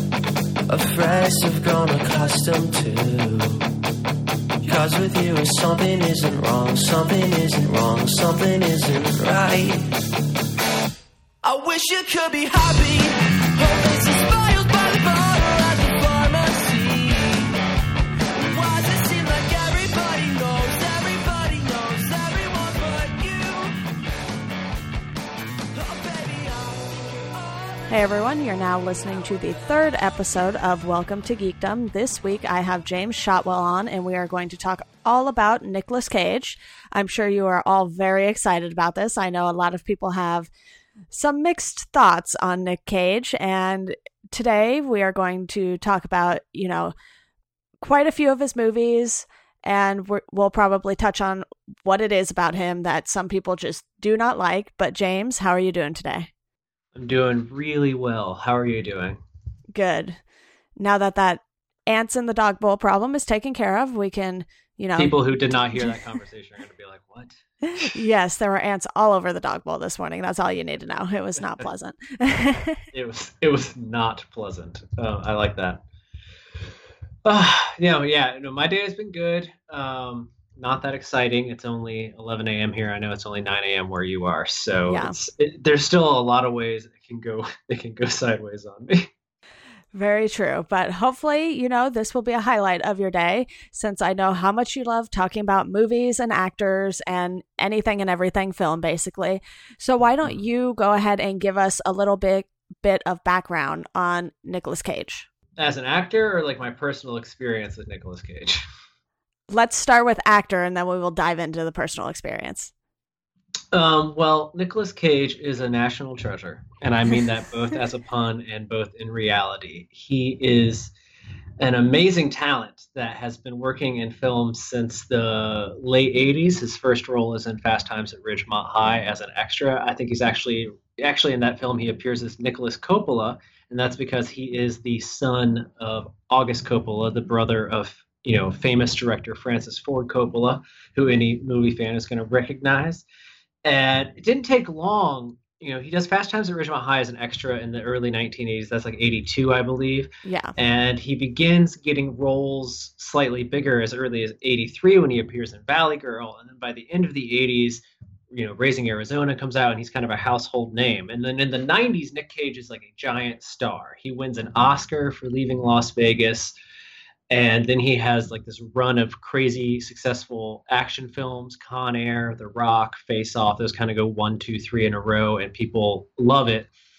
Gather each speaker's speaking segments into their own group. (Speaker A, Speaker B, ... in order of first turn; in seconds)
Speaker A: 0.7-3.7, 4.7-9.8, 11.4-17.6, 18.3-23.8, 25.7-27.8
Speaker B: 27.9-40.5, 41.1-46.9, 47.8-56.3, 59.7-60.2, 60.8-65.2, 67.8-72.8, 84.9-85.2, 89.9-105.3, 109.5-112.7, 150.2-150.5
Speaker C: 56.9-59.2, 65.0-67.9, 72.9-75.8, 77.2-89.1, 105.6-108.6, 113.7-120.9, 121.6-143.1, 143.7-166.5, 167.3-176.7